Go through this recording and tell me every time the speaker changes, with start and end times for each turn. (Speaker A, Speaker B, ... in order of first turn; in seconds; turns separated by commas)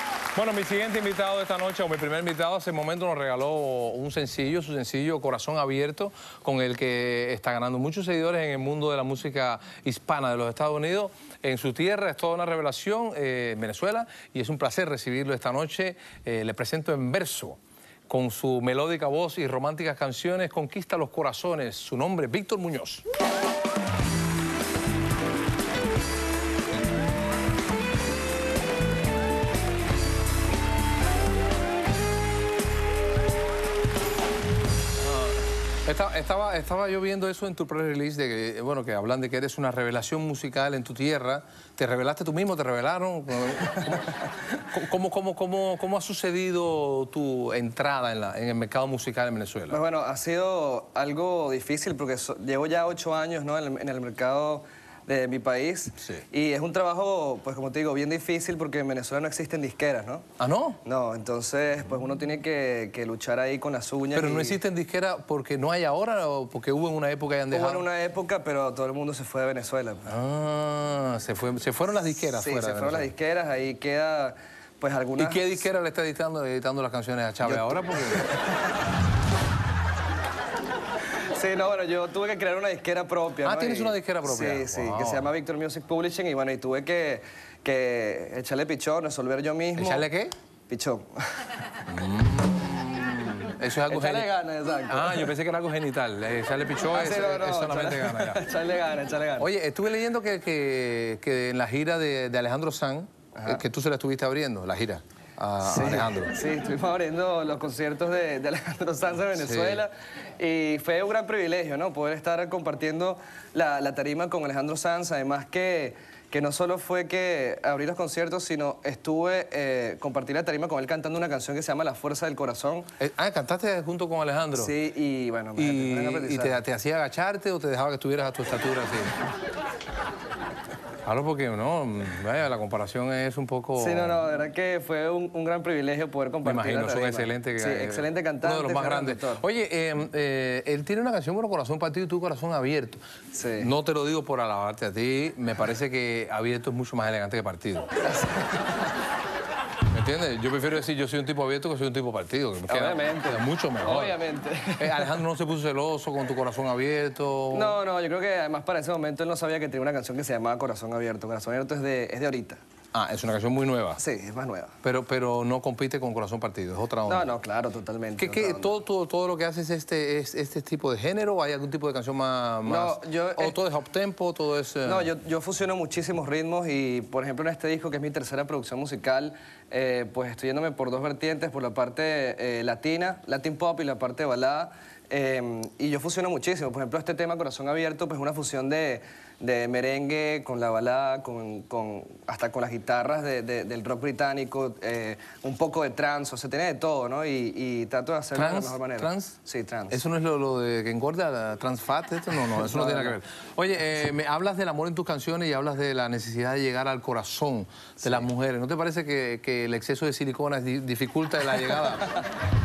Speaker A: 0.3-23.0, Speaker A: 35.0-49.8, Speaker B: 49.7-60.2, Speaker A: 60.4-60.8, Speaker B: 60.8-64.6, Speaker A: 64.2-67.8, Speaker B: 67.5-70.1, Speaker A: 70.1-73.1, Speaker B: 72.3-75.5, Speaker A: 75.2-78.4, Speaker B: 77.4-78.5, Speaker B: 81.3-90.0, Speaker A: 83.4-85.3, Speaker A: 89.8-90.3, Speaker B: 90.7-91.5, Speaker A: 91.9-94.3, Speaker B: 93.9-95.3, Speaker A: 94.9-98.4, Speaker B: 96.9-99.5, Speaker A: 99.4-106.3, Speaker B: 103.3-103.6, Speaker B: 105.6-122.9, Speaker A: 109.3-109.8, Speaker A: 123.0-124.7, Speaker B: 124.5-126.6, Speaker A: 125.6-129.1, Speaker A: 131.1-134.2, Speaker B: 133.8-139.4, Speaker A: 136.4-143.0, Speaker B: 143.3-143.7, Speaker A: 143.6-147.9, Speaker B: 148.0-148.8, Speaker A: 149.9-154.2, Speaker B: 152.7-155.1, Speaker A: 154.8-157.8, Speaker B: 157.5-162.6, Speaker A: 162.9-164.0, Speaker B: 164.0-164.7, Speaker A: 164.8-167.3, Speaker B: 167.1-168.7, Speaker A: 168.2-175.1, Speaker B: 172.7-173.6, Speaker B: 174.8-200.0, Speaker A: 198.3-199.3, Speaker A: 199.9-212.1, Speaker B: 202.6-203.2